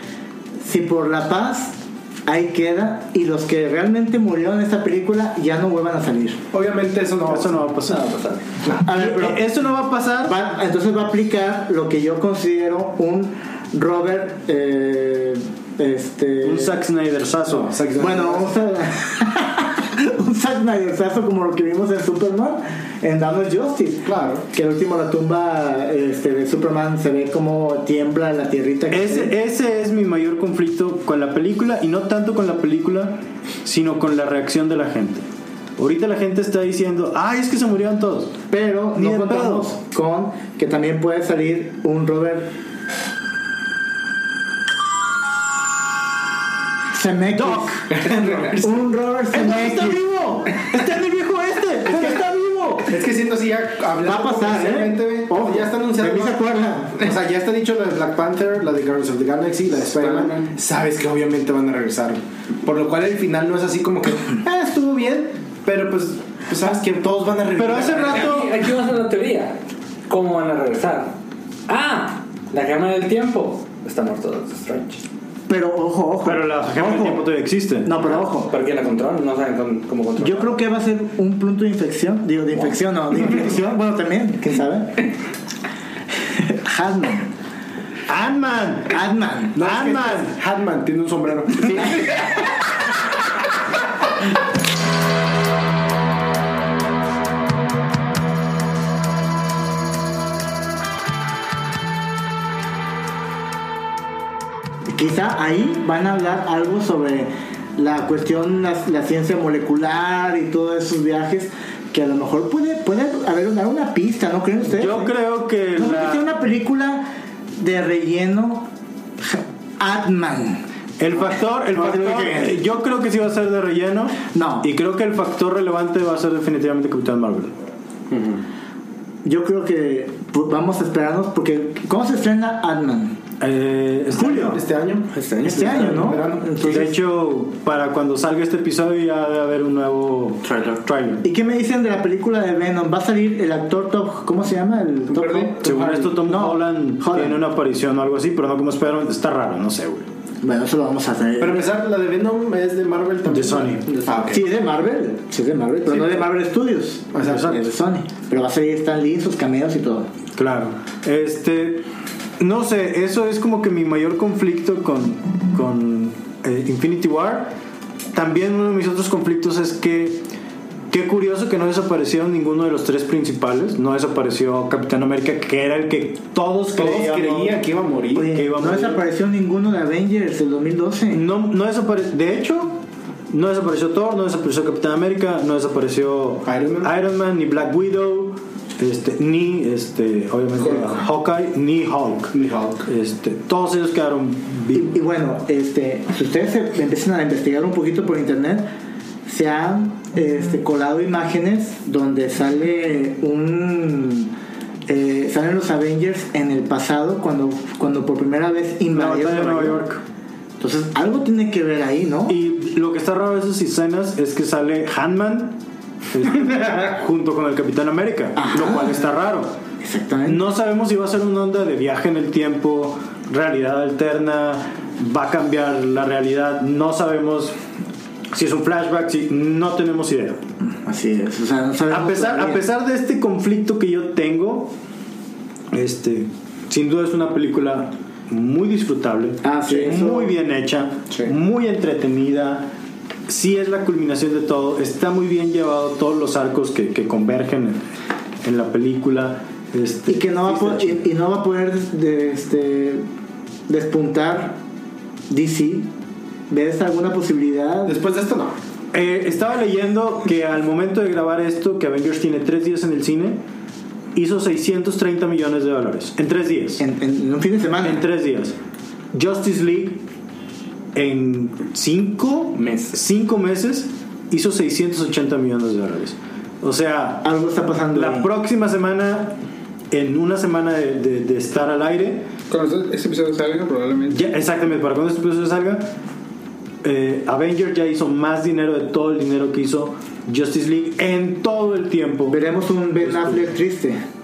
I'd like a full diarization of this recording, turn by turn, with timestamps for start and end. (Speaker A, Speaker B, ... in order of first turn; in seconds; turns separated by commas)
Speaker A: 0.6-6.4, Speaker B: 6.5-7.6, Speaker C: 7.3-8.2, Speaker D: 7.9-8.4, Speaker A: 8.8-9.5, Speaker C: 8.8-10.4, Speaker A: 10.2-16.8, Speaker C: 16.4-17.7, Speaker B: 17.5-18.6, Speaker A: 18.0-29.3, Speaker B: 24.1-24.4, Speaker C: 28.9-35.2, Speaker C: 35.8-38.4, Speaker A: 38.5-42.5, Speaker C: 39.0-39.7, Speaker A: 46.9-47.9, Speaker C: 47.3-48.6, Speaker B: 47.9-48.8, Speaker A: 48.6-50.5, Speaker C: 49.3-53.0, Speaker B: 52.9-56.4, Speaker A: 54.0-57.1, Speaker B: 57.0-68.3, Speaker E: 59.9-60.5, Speaker C: 67.6-68.5, Speaker D: 68.0-71.2, Speaker D: 71.7-75.0, Speaker A: 75.5-77.3, Speaker C: 76.2-78.0, Speaker A: 77.8-78.5, Speaker D: 78.1-80.6, Speaker A: 80.2-85.1, Speaker A: 86.3-87.3, Speaker C: 88.1-89.0, Speaker A: 88.9-89.6, Speaker C: 89.6-90.4, Speaker B: 89.6-92.4, Speaker A: 104.9-115.2, Speaker C: 114.7-116.3, Speaker A: 115.7-118.7, Speaker A: 119.2-120.7, Speaker C: 121.0-127.5, Speaker A: 121.2-122.6, Speaker A: 124.3-124.7, Speaker B: 128.1-128.4, Speaker A: 129.2-133.2, Speaker C: 133.4-134.6, Speaker A: 134.2-134.6, Speaker B: 134.3-136.9, Speaker A: 135.4-137.0, Speaker C: 136.7-141.2, Speaker A: 141.2-147.4, Speaker B: 145.1-146.1, Speaker C: 145.6-150.1, Speaker A: 150.4-151.7, Speaker B: 151.4-154.5, Speaker C: 153.2-153.9, Speaker A: 154.3-160.1, Speaker B: 155.9-156.2, Speaker B: 157.1-157.5, Speaker C: 157.2-157.7, Speaker C: 160.4-161.9, Speaker C: 162.4-167.5, Speaker C: 168.1-170.3, Speaker C: 170.9-177.6, Speaker B: 176.7-178.3, Speaker A: 178.2-181.2, Speaker C: 178.2-179.1, Speaker C: 181.1-195.0, Speaker B: 186.4-186.9, Speaker B: 192.3-192.8, Speaker A: 194.7-198.7, Speaker A: 199.3-204.3, Speaker A: 204.9-209.8, Speaker C: 208.9-210.0, Speaker A: 210.6-212.4, Speaker C: 212.3-215.6, Speaker C: 216.1-219.6, Speaker A: 218.4-218.9, Speaker A: 219.8-220.5, Speaker C: 220.3-227.6, Speaker C: 228.3-230.4, Speaker A: 230.8-232.7, Speaker C: 231.9-234.7, Speaker C: 235.7-242.7, Speaker A: 239.4-240.3, Speaker C: 243.3-247.8, Speaker C: 248.4-251.0, Speaker A: 250.1-253.1, Speaker A: 253.7-254.6, Speaker A: 255.3-255.9, Speaker A: 256.5-258.0, Speaker B: 257.9-258.6, Speaker C: 258.9-263.4, Speaker C: 264.1-266.8, Speaker A: 266.8-268.0, Speaker C: 267.8-268.6, Speaker C: 269.1-270.0, Speaker C: 270.9-277.3, Speaker B: 272.6-273.0, Speaker A: 277.2-278.3, Speaker C: 277.9-279.4, Speaker C: 279.9-282.3, Speaker E: 282.5-284.2, Speaker C: 284.1-285.9, Speaker C: 286.8-292.4, Speaker A: 292.3-294.0, Speaker C: 293.0-293.5